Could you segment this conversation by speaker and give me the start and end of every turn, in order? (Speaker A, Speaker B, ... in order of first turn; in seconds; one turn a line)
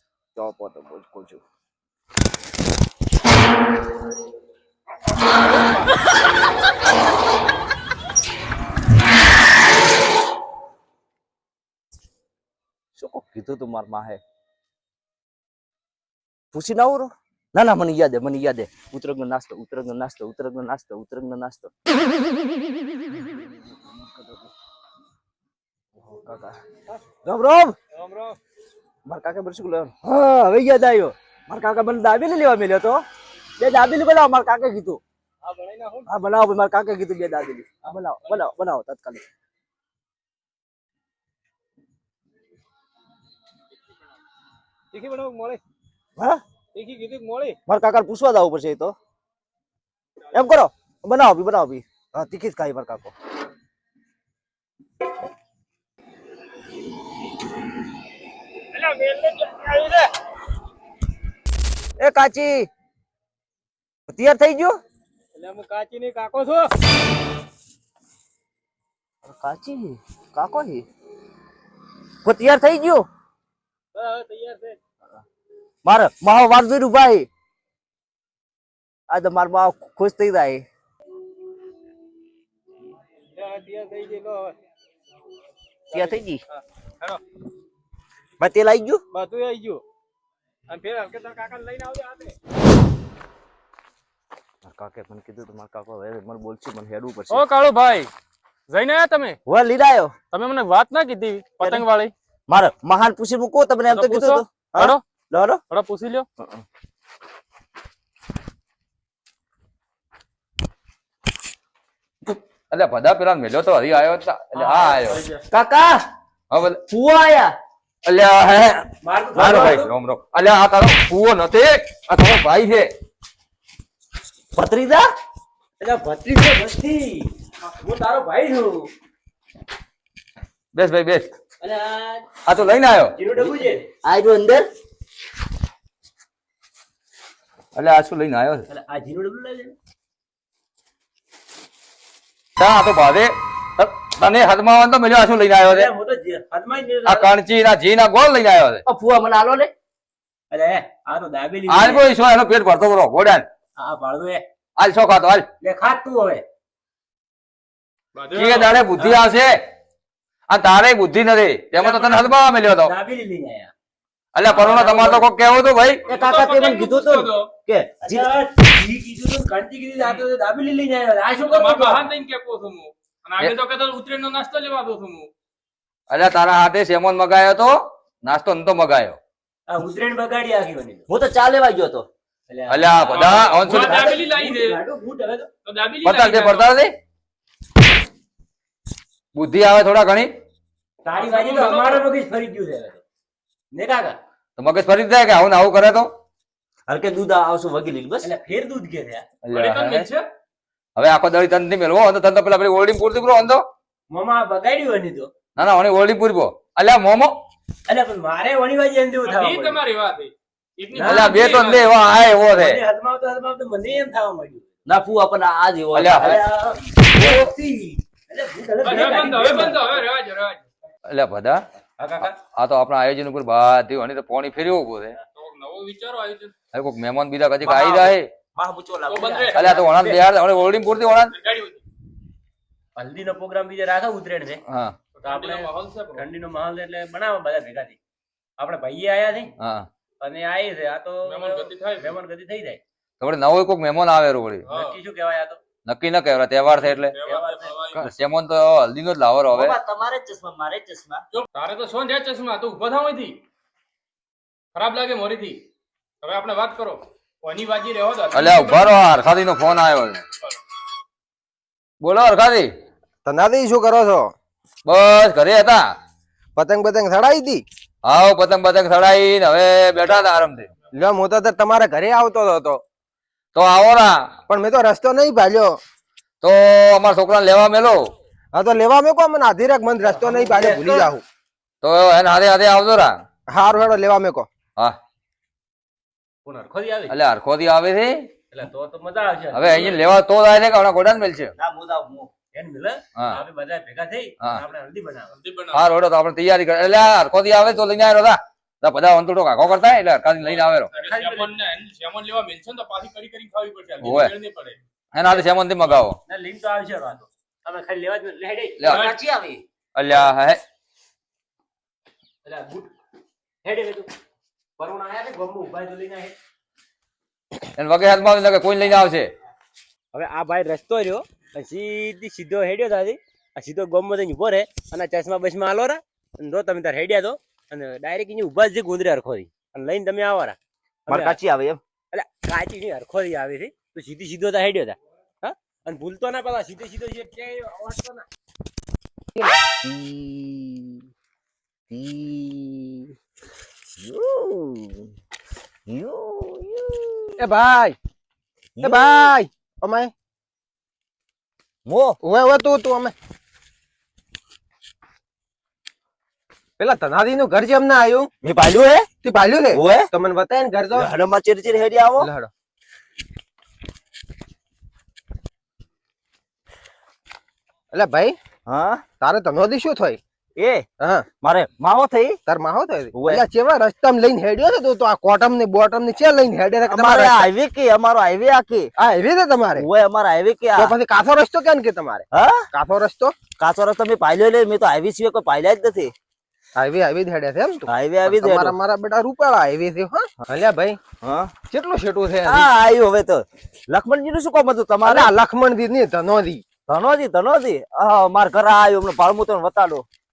Speaker A: 0.3-1.4
Speaker A: 13.0-14.2
Speaker A: 16.5-21.7
Speaker A: 22.9-24.5
Speaker A: 26.0-26.6
Speaker A: 27.2-27.8
Speaker B: 28.0-28.3
Speaker A: 29.1-33.0
Speaker A: 33.6-35.0
Speaker B: 35.5-36.0
Speaker A: 36.1-39.2
Speaker B: 44.9-45.6
Speaker B: 46.7-47.6
Speaker A: 47.7-48.9
Speaker A: 50.3-53.1
Speaker B: 58.8-60.0
Speaker A: 62.0-62.7
Speaker A: 64.1-64.8
Speaker B: 65.3-66.7
Speaker A: 69.2-70.8
Speaker A: 72.2-73.1
Speaker B: 74.0-74.7
Speaker A: 75.8-77.3
Speaker A: 79.1-80.6
Speaker B: 83.4-84.5
Speaker A: 85.9-86.4
Speaker B: 85.9-86.2
Speaker A: 88.4-89.0
Speaker B: 89.1-89.8
Speaker B: 90.7-92.3
Speaker A: 94.7-97.4
Speaker B: 97.3-98.1
Speaker B: 98.7-99.4
Speaker A: 99.5-100.2
Speaker B: 100.3-102.1
Speaker A: 101.6-101.8
Speaker A: 102.5-105.6
Speaker B: 103.9-105.0
Speaker B: 105.7-106.2
Speaker C: 112.7-115.2
Speaker D: 114.5-115.4
Speaker A: 115.5-116.1
Speaker C: 116.5-116.8
Speaker A: 116.9-117.5
Speaker C: 118.0-122.9
Speaker D: 119.0-119.9
Speaker A: 124.5-125.1
Speaker D: 125.8-128.9
Speaker C: 130.7-131.3
Speaker D: 131.6-132.2
Speaker C: 132.5-133.1
Speaker D: 133.2-133.9
Speaker A: 134.0-134.7
Speaker C: 137.7-138.7
Speaker D: 138.7-139.7
Speaker C: 142.6-145.9
Speaker D: 145.6-147.3
Speaker C: 147.0-148.8
Speaker A: 148.8-149.7
Speaker D: 150.5-152.1
Speaker C: 151.7-153.5
Speaker D: 153.8-154.4
Speaker C: 154.8-155.5
Speaker D: 155.6-156.4
Speaker B: 158.2-158.8
Speaker C: 158.3-159.5
Speaker C: 160.5-162.9
Speaker D: 161.8-162.3
Speaker B: 161.8-162.2
Speaker D: 162.8-163.7
Speaker C: 164.3-166.1
Speaker D: 164.5-165.3
Speaker B: 166.0-167.5
Speaker A: 166.1-168.3
Speaker D: 168.0-172.1
Speaker B: 171.5-175.3
Speaker C: 176.1-179.2
Speaker D: 179.7-181.0
Speaker A: 181.1-182.1
Speaker D: 182.5-185.5
Speaker C: 182.7-183.8
Speaker B: 183.1-184.8
Speaker B: 185.7-186.7
Speaker C: 186.0-186.9
Speaker C: 189.3-190.3
Speaker D: 191.0-193.0
Speaker B: 191.2-192.1
Speaker D: 193.7-194.2
Speaker C: 194.6-196.1
Speaker A: 196.9-198.3
Speaker D: 198.2-199.2
Speaker C: 199.4-200.1
Speaker B: 199.5-200.2
Speaker C: 201.0-203.6
Speaker D: 204.1-205.3
Speaker C: 205.6-207.3
Speaker D: 207.9-209.8
Speaker B: 209.2-211.9
Speaker D: 210.9-211.8
Speaker C: 211.0-212.8
Speaker D: 212.5-214.7
Speaker A: 214.8-216.4
Speaker C: 215.9-216.4
Speaker D: 216.2-220.0
Speaker C: 217.2-217.5
Speaker B: 218.8-220.6
Speaker C: 221.1-221.6
Speaker D: 222.0-222.3
Speaker C: 222.4-225.2
Speaker B: 225.3-226.5
Speaker C: 226.7-228.3
Speaker A: 227.6-229.8
Speaker B: 229.1-229.7
Speaker C: 229.5-231.3
Speaker D: 229.6-230.2
Speaker B: 231.3-231.8
Speaker D: 233.0-234.6
Speaker C: 234.7-235.0
Speaker B: 235.1-236.2
Speaker D: 235.2-238.0
Speaker D: 238.6-239.5
Speaker C: 239.6-239.9
Speaker D: 240.2-242.8
Speaker B: 241.2-242.1
Speaker C: 243.2-244.7
Speaker B: 244.7-244.9
Speaker D: 244.7-245.6
Speaker C: 245.8-247.2
Speaker B: 246.9-248.0
Speaker D: 247.2-247.7
Speaker C: 247.9-249.8
Speaker A: 249.5-251.2
Speaker B: 251.3-253.4
Speaker B: 254.7-255.6
Speaker B: 256.2-259.0
Speaker C: 258.3-260.2
Speaker C: 262.0-262.7
Speaker E: 263.2-264.3
Speaker C: 264.9-265.8
Speaker E: 266.6-267.6
Speaker C: 268.1-270.7
Speaker E: 270.9-272.8
Speaker C: 273.5-274.3
Speaker E: 274.5-275.8
Speaker C: 276.4-278.1
Speaker E: 278.5-281.2
Speaker D: 280.0-281.1
Speaker C: 281.8-283.2
Speaker E: 283.5-284.5
Speaker D: 286.4-287.1
Speaker C: 287.1-288.3
Speaker D: 288.5-290.0
Speaker C: 289.5-291.5
Speaker A: 291.6-292.3
Speaker D: 292.5-295.4
Speaker B: 295.3-295.9
Speaker C: 295.7-300.9
Speaker B: 300.5-304.8
Speaker D: 300.9-301.5
Speaker C: 304.0-304.4
Speaker C: 305.1-306.2
Speaker D: 306.2-309.0
Speaker C: 308.8-309.1
Speaker A: 308.8-309.6
Speaker B: 308.9-309.2
Speaker C: 310.0-310.6
Speaker D: 312.4-312.9
Speaker D: 313.6-314.1
Speaker D: 314.8-316.4
Speaker C: 317.8-319.3
Speaker D: 320.1-331.4
Speaker A: 331.1-331.8
Speaker D: 332.1-338.2
Speaker A: 339.8-341.0
Speaker A: 341.9-343.1
Speaker A: 344.0-345.1
Speaker A: 345.9-347.4
Speaker E: 347.4-348.0
Speaker A: 348.8-349.3
Speaker E: 348.8-350.1
Speaker A: 351.9-352.2
Speaker E: 352.2-353.1
Speaker E: 356.8-358.3
Speaker A: 358.4-359.1
Speaker E: 359.2-361.1
Speaker A: 359.7-360.1
Speaker A: 360.9-362.3
Speaker E: 362.2-362.5
Speaker E: 367.9-368.4
Speaker A: 368.7-369.0
Speaker E: 369.2-370.2
Speaker A: 370.6-370.9
Speaker A: 371.4-372.4
Speaker E: 372.5-377.5
Speaker A: 373.1-373.4
Speaker A: 376.9-378.9
Speaker E: 379.0-379.9
Speaker A: 379.8-380.9
Speaker E: 380.8-383.4
Speaker A: 382.3-382.6
Speaker A: 383.6-386.1
Speaker E: 386.8-391.0
Speaker A: 387.9-388.8
Speaker A: 391.2-391.5
Speaker E: 391.7-392.7
Speaker A: 392.5-395.3
Speaker E: 395.1-396.6
Speaker A: 396.9-400.1